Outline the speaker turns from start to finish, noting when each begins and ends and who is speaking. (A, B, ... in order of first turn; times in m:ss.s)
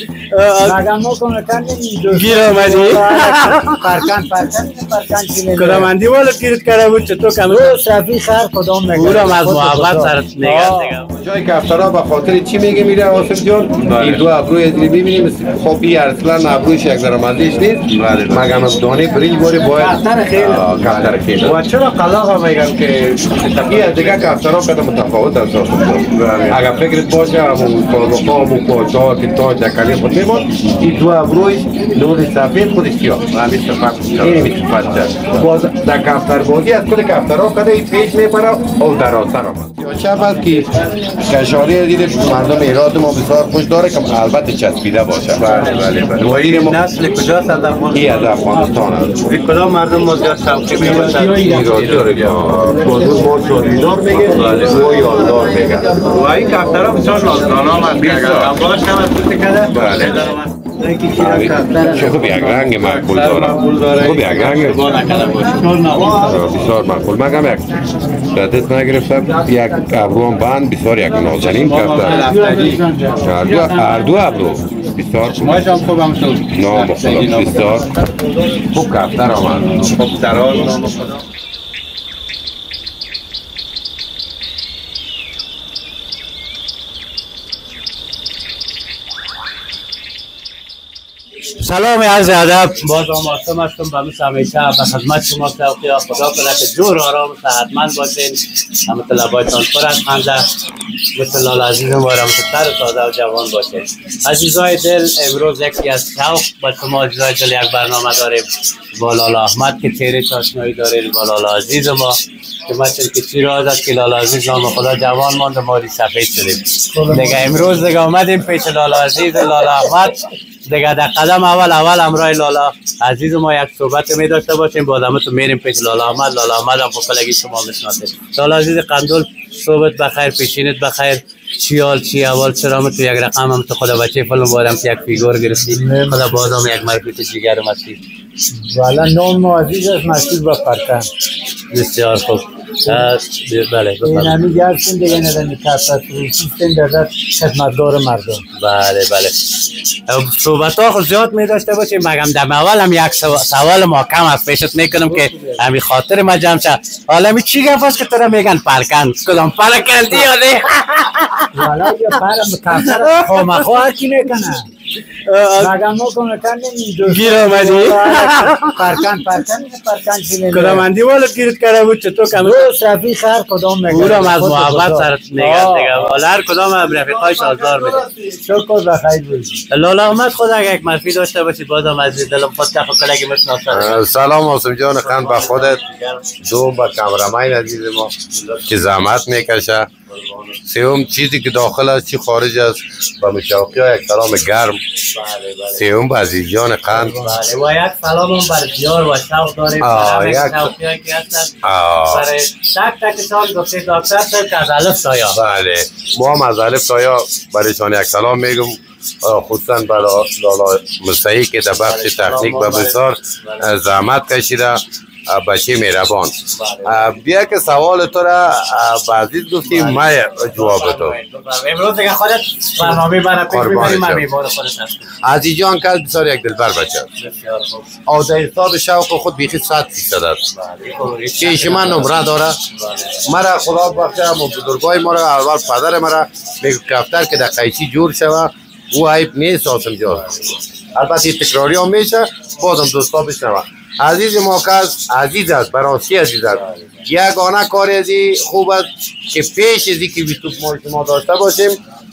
0:00.2-0:00.8 A
0:00.6-0:05.9 B
0:02.1-0:03.8 A
0:05.5-0:07.8 A
0:07.5-0:11.0 B
0:08.9-0:11.2 A
0:11.2-0:21.6 C
0:13.8-0:14.2 A
0:17.9-0:18.6 A
0:19.8-0:20.6 B
0:20.5-0:24.4 A
0:23.7-0:33.4 C
0:26.1-0:26.8 A
0:33.3-0:35.4 A
0:34.2-0:46.8 C
0:45.4-0:48.2 A
0:47.9-0:49.2 C
0:49.2-0:52.7 A
0:51.0-0:51.4 B
0:51.2-0:55.9 C
0:54.2-0:54.9 A
0:56.0-1:06.3 A
0:57.9-0:58.6 C
0:59.7-1:00.2 C
1:01.1-1:04.8 C
1:01.7-1:02.2 B
1:05.5-1:06.5 B
1:05.9-1:12.3 C
1:11.2-1:12.9 A
1:12.0-1:14.6 B
1:13.2-1:15.7 C
1:15.3-1:17.8 A
1:16.5-1:17.9 C
1:18.7-1:19.9 C
1:19.7-1:21.2 A
1:31.6-1:40.5 A
1:41.2-2:18.0 A
1:56.9-1:57.8 B
2:15.7-2:16.5 B
2:18.5-2:21.1 B
2:21.7-2:24.6 A
2:24.0-2:28.4 B
2:28.6-2:29.4 A
2:30.1-2:41.5 A
2:35.1-2:35.6 B
2:41.5-2:44.7 B
2:42.8-2:43.7 A
2:45.2-2:45.8 A
2:45.6-2:50.9 B
2:47.0-2:48.9 A
2:50.5-2:52.7 A
2:52.3-2:56.2 B
2:53.9-2:58.0 A
2:58.1-2:59.6 B
2:59.7-3:04.1 A
3:03.7-3:05.8 C
3:05.0-3:06.3 A
3:06.4-3:08.1 C
3:08.4-3:08.6 A
3:08.6-3:09.9 C
3:10.1-3:10.5 A
3:10.6-3:14.8 C
3:15.1-3:15.9 A
3:15.8-3:17.2 C
3:16.9-3:17.4 B
3:17.2-3:25.4 A
3:19.8-3:20.7 C
3:21.6-3:22.3 C
3:25.3-3:36.3 C
3:31.8-3:33.7 A
3:36.5-3:37.2 A
3:36.8-3:41.2 C
3:39.6-3:45.1 A
3:43.5-3:44.3 C
3:45.2-3:47.1 C
3:47.2-3:47.9 A
3:48.1-3:50.4 C
3:50.5-3:53.2 A
3:51.4-3:52.6 C
3:53.3-4:11.8 C